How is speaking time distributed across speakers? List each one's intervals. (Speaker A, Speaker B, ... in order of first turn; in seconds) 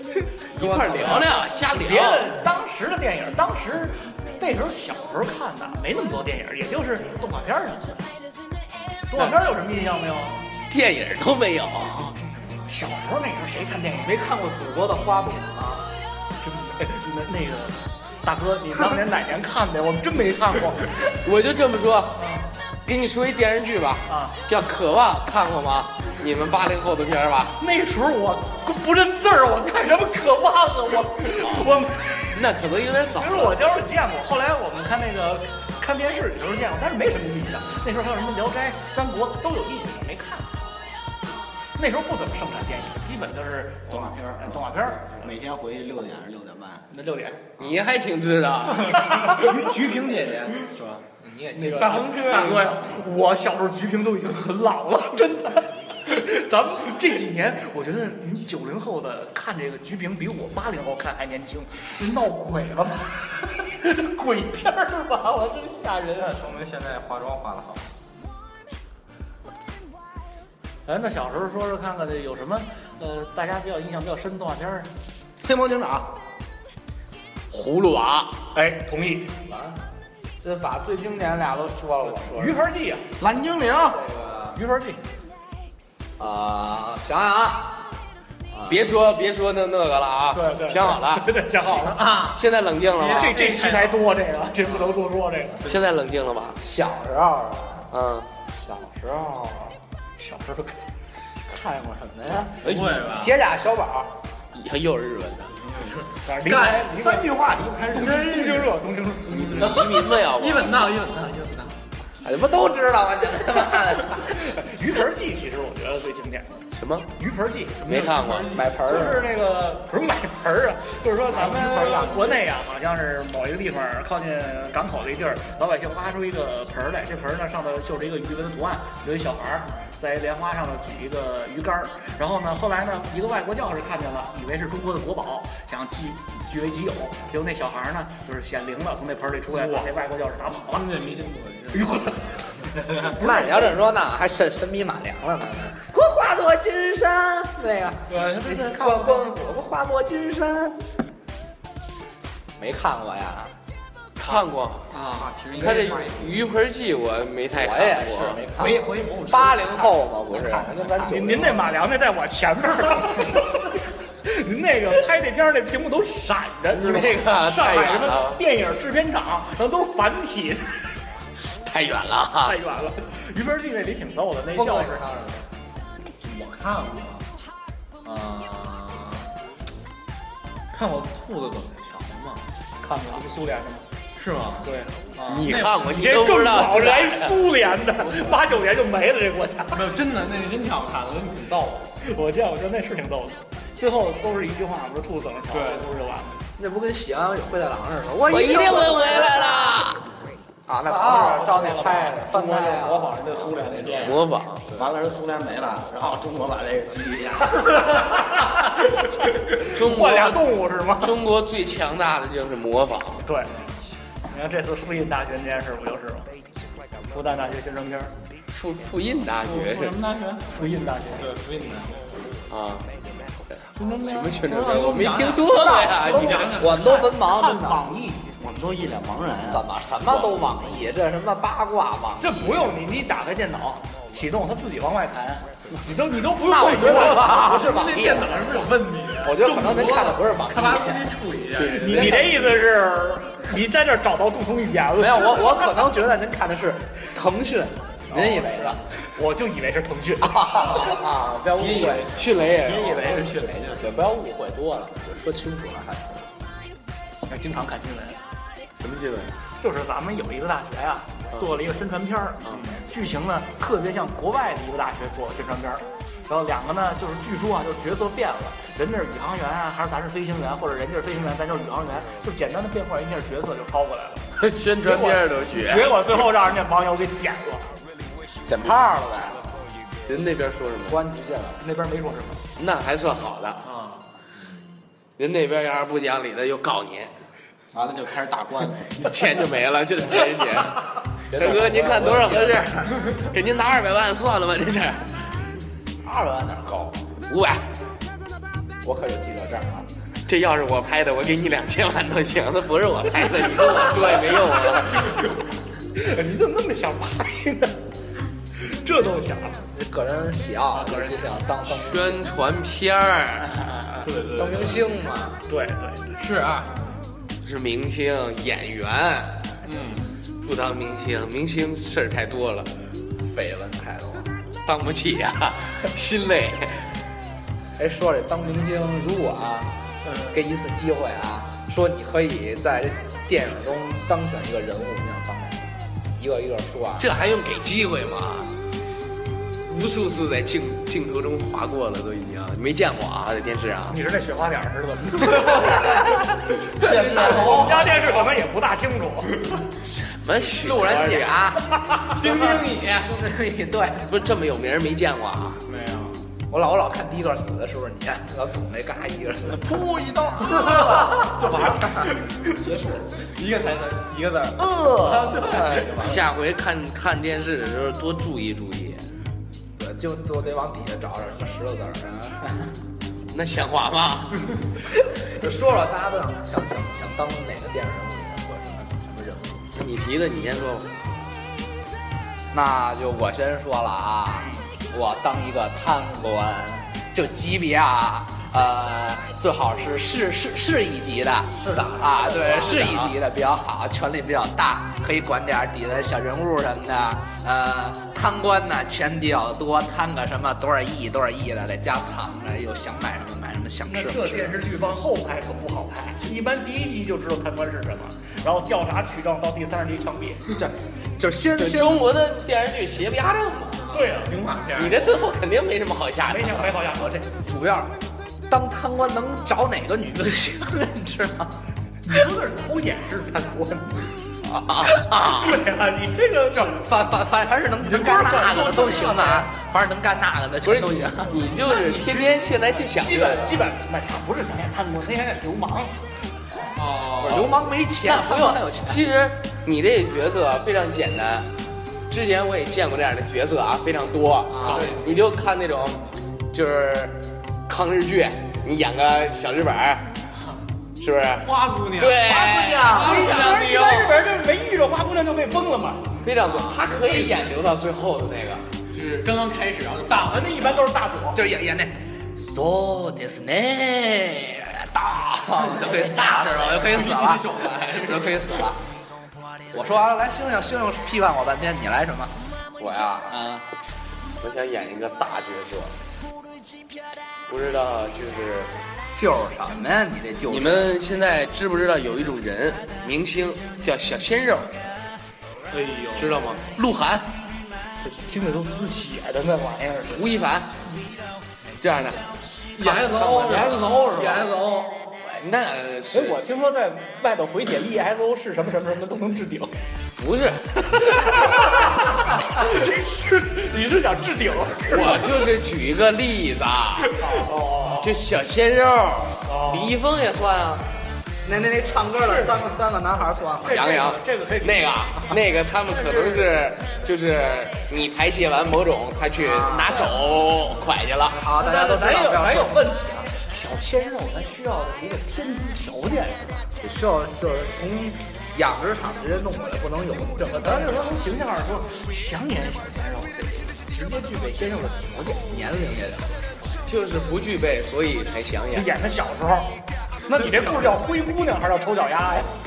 Speaker A: 0.5-2.4, 10.7-12.2, 21.2-22.2, 22.9-27.6, 31.4-31.7, 32.3-33.6, 47.6-49.4, 77.5-78.4, 88.7-93.5, 95.6-96.6, 97.9-98.3, 104.5-105.5, 109.3-110.9, 116.7-117.1, 117.8-118.6, 154.2-154.9, 155.6-158.4, 166.7-168.4, 171.6-172.6, 185.2-187.4, 198.2-200.0, 203.9-204.7, 209.7-213.2, 218.5-220.0, 222.5-222.9, 223.5-226.6, 230.1-230.4, 241.5-242.6, 251.9-253.2, 258.8-259.4, 274.4-276.0, 280.1-281.0, 282.6-283.7, 285.2-287.1, 289.0-290.8, 291.3-295.1, 297.3-297.6, 300.3-305.2, 311.7-313.5, 317.4-319.4, 320.4-322.7, 324.7-326.8, 337.0-338.5, 339.6-344.0, 349.8-351.5, 354.1-355.6, 365.9-369.1, 373.3-374.5, 379.8-381.0, 392.2-393.2, 411.6-413.8, 414.7-416.9, 424.5-425.6, 430.6-433.7, 437.2-441.5, 442.1-450.1, 451.0-453.6, 456.2-458.7, 474.4-475.9, 477.5-478.7, 480.5-484.8, 486.1-487.3, 490.1-490.8, 491.8-492.2, 492.8-494.0, 495.2-496.4, 500.2-501.4, 504.9-507.4, 508.0-510.9, 513.7-521.4, 536.9-538.9
Speaker B: 0.5-1.3, 14.0-15.9, 51.2-52.5, 79.5-79.8, 80.4-82.6, 83.9-84.6, 86.2-87.9, 88.5-88.8, 96.6-97.9, 98.5-99.8, 101.5-104.1, 112.2-114.6, 118.5-119.3, 143.1-150.8, 152.6-153.5, 157.5-161.8, 174.5-175.5, 196.6-199.8, 200.7-203.2, 225.6-226.0, 226.6-227.8, 229.5-232.7, 236.4-241.1, 245.0-248.8, 250.2-252.1, 253.7-256.3, 278.5-279.4, 280.9-281.6, 291.3-293.0, 296.0-297.0, 298.8-299.9, 309.7-312.3, 314.4-315.4, 323.2-324.3, 327.8-329.8, 330.3-337.1, 350.6-354.1, 356.5-359.8, 361.8-362.1, 369.8-372.7, 375.2-379.7, 382.5-404.6, 411.2-412.1, 417.4-418.0, 418.5-421.6, 426.5-431.4, 437.2-439.0, 444.6-444.9, 461.3-468.8, 469.7-473.6, 479.1-481.0, 511.4-514.0, 519.4-520.1, 521.4-522.9, 526.8-531.1, 535.3-536.4
Speaker C: 1.7-8.1, 9.1-10.5, 12.7-14.2, 16.4-21.0, 22.2-22.4, 24.1-24.4, 27.6-32.4, 33.1-40.9, 41.8-45.3, 46.9-47.4, 51.6-66.3, 70.9-74.9, 78.5-79.3, 82.3-83.1, 84.5-85.0, 90.3-92.2, 93.1-95.7, 100.2-100.8, 106.3-107.4, 107.9-109.9, 114.3-116.5, 117.2-117.8, 118.8-141.0, 141.7-142.2, 142.9-143.8, 148.1-149.3, 161.0-170.8, 172.4-175.0, 182.8-183.9, 184.6-185.0, 185.8-189.9, 192.0-196.4, 208.1-208.7, 209.2-211.2, 213.2-213.5, 214.3-216.3, 217.1-218.1, 220.5-221.3, 226.4-228.3, 232.2-237.5, 241.7-245.8, 249.0-250.9, 257.3-258.2, 259.6-274.3, 274.8-277.7, 281.6-282.4, 303.8-305.3, 305.9-307.8, 308.6-309.6, 310.8-311.2, 313.4-314.1, 315.5-316.2, 343.9-349.4, 403.9-410.4, 413.9-414.4, 416.3-417.3, 422.1-424.1, 424.9-426.9, 427.9-429.5, 432.9-436.0, 453.0-456.2, 460.1-461.4, 488.0-490.3, 496.1-499.7, 501.2-505.5, 507.1-508.2, 509.5-509.9, 512.1-512.6, 513.6-515.4, 516.0-516.4, 521.5-526.6, 530.6-535.4, 538.7-539.7, 540.3-542.5
Speaker D: 43.9-46.9, 49.0-51.0, 66.2-67.9, 75.4-76.1, 83.2-84.0, 105.6-108.6, 121.3-122.4, 155.0-156.5, 158.5-160.9, 200.9-208.1, 228.4-229.7, 250.7-254.0, 287.7-289.5, 346.7-348.1, 359.5-363.2, 364.6-366.3, 391.6-392.0
Speaker E: 51.8-52.6, 91.8-92.4, 93.0-94.1, 94.6-95.0, 102.6-103.4, 105.9-106.9, 108.1-108.7, 109.3-111.8, 117.8-119.2, 139.5-140.0, 140.6-143.2, 148.1-149.1, 154.9-155.9, 176.2-177.3, 178.0-179.3, 180.7-182.4, 184.2-185.8, 188.0-188.5, 189.7-191.9, 195.5-195.9, 213.5-213.8, 219.4-222.0, 223.8-227.1, 236.4-242.2, 248.2-248.7, 283.6-284.0, 314.0-314.9, 316.2-316.8, 319.6-320.2, 330.0-330.4, 347.0-348.1, 352.1-353.2, 355.7-356.2, 363.3-366.1, 413.9-415.1, 436.7-437.6, 444.6-445.2, 451.4-454.2, 458.9-460.9, 465.5-468.6, 485.7-486.4, 492.8-495.1, 540.4-540.9